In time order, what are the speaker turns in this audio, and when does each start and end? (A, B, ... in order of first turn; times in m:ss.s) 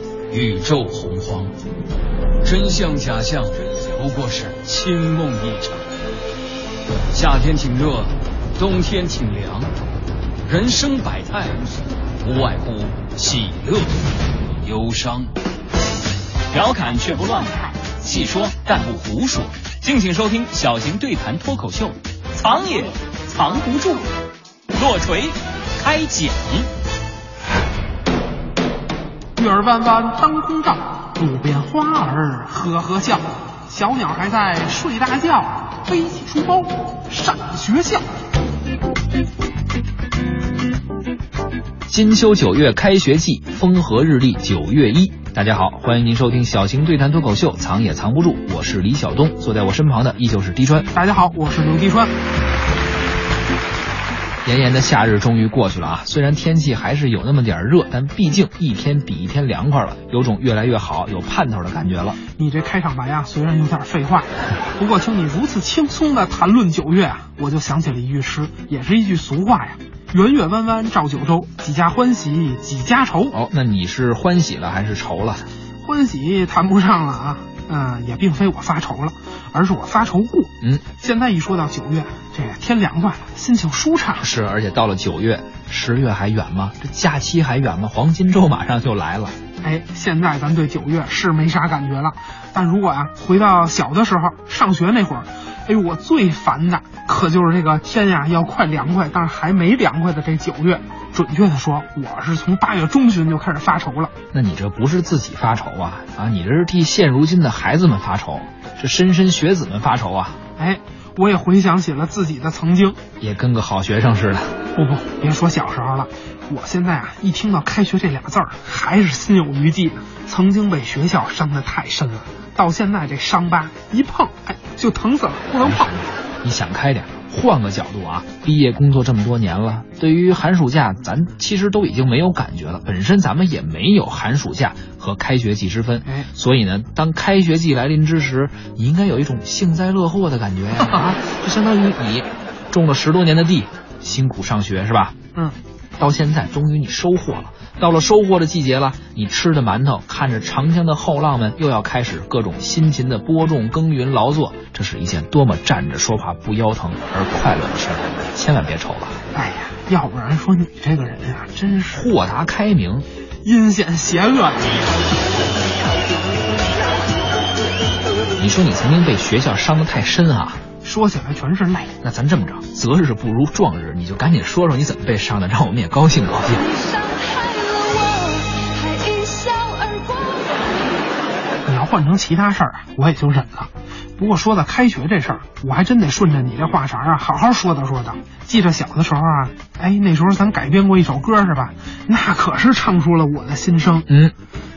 0:00.3-0:01.5 A
0:02.4-0:05.9 A
0:07.1-0:09.7 A
0:10.5-0:13.9 A
0:14.6-0:15.3 A
0:16.5-0:24.0 B
0:24.7-0:26.7 B
0:29.4-0:38.1 C
0:41.9-0:50.9 D
0:50.9-0:52.1 C
0:54.4-1:02.2 D
1:02.4-1:13.3 C
1:13.3-1:15.4 D
1:15.8-1:24.3 C
1:24.2-1:29.4 D
1:29.6-1:44.1 C
1:44.3-1:50.4 D
1:50.6-1:53.0 C
1:53.2-1:54.6 D
1:54.7-2:06.0 C
2:05.6-2:25.2 D
2:26.0-2:39.2 D
2:39.3-2:42.1 C
2:41.9-2:43.1 D
2:43.4-2:45.0 C
2:48.4-2:50.6 D
2:50.8-2:51.9 C
2:52.0-2:56.6 D
2:56.4-3:00.7 E
3:01.7-3:14.1 C
3:14.1-3:14.3 D